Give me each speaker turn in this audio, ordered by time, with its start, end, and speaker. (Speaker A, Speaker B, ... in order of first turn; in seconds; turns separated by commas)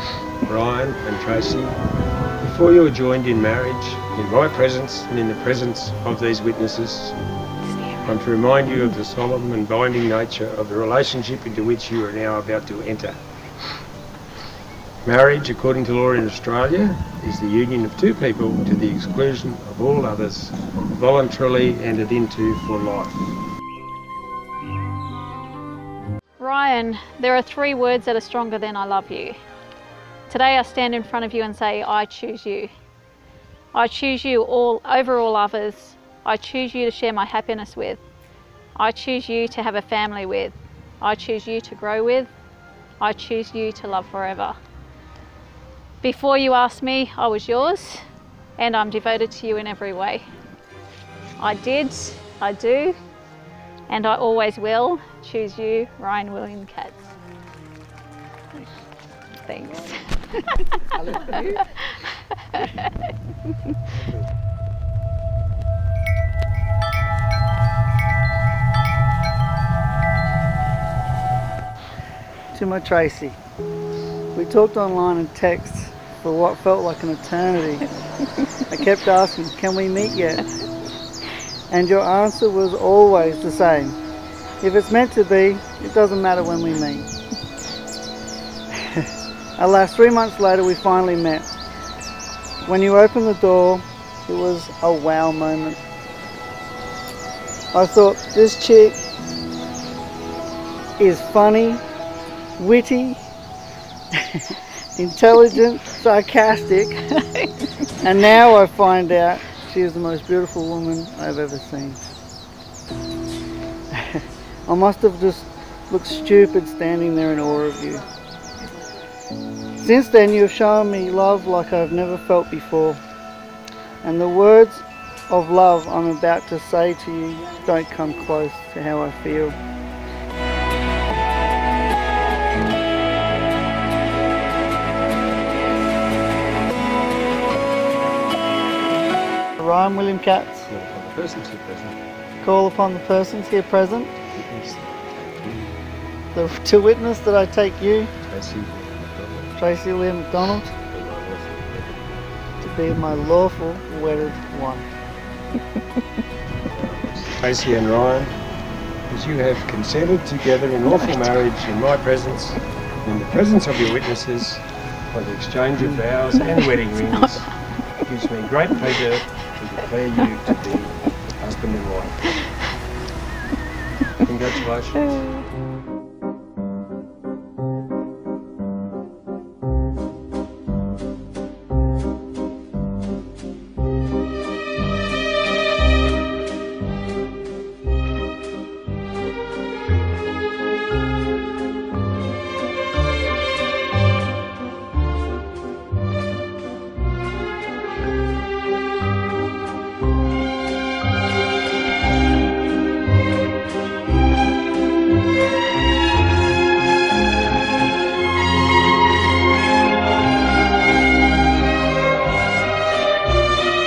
Speaker A: 0.4-1.8, Speaker A: 2.4-7.2, Speaker A: 8.0-13.2, Speaker A: 15.0-23.2, Speaker B: 26.4-29.4, Speaker B: 30.3-32.7, Speaker B: 33.7-38.0, Speaker B: 38.8-42.3, Speaker B: 43.0-44.5, Speaker B: 46.0-48.0, Speaker B: 48.6-50.2, Speaker B: 51.4-53.0, Speaker B: 53.9-57.1, Speaker B: 59.4-62.9, Speaker C: 72.5-73.4, Speaker C: 74.3-77.9, Speaker C: 78.7-80.5, Speaker C: 81.7-84.0, Speaker C: 84.6-87.1, Speaker C: 88.8-89.0, Speaker C: 89.6-91.5, Speaker C: 92.6-95.8, Speaker C: 97.7-99.0, Speaker C: 101.0-101.8, Speaker C: 102.6-103.2, Speaker C: 104.1-107.2, Speaker C: 108.0-112.0, Speaker C: 113.9-118.0, Speaker C: 119.8-123.0, Speaker C: 124.0-129.6, Speaker C: 139.6-140.7, Speaker A: 140.7-141.9, Speaker C: 142.4-144.2, Speaker A: 144.3-145.7, Speaker C: 146.3-148.1, Speaker A: 148.2-149.5, Speaker C: 149.6-150.8, Speaker A: 150.9-152.0, Speaker C: 152.6-154.9, Speaker A: 156.7-158.3, Speaker A: 159.1-167.5, Speaker A: 168.0-172.3, Speaker A: 174.2-175.2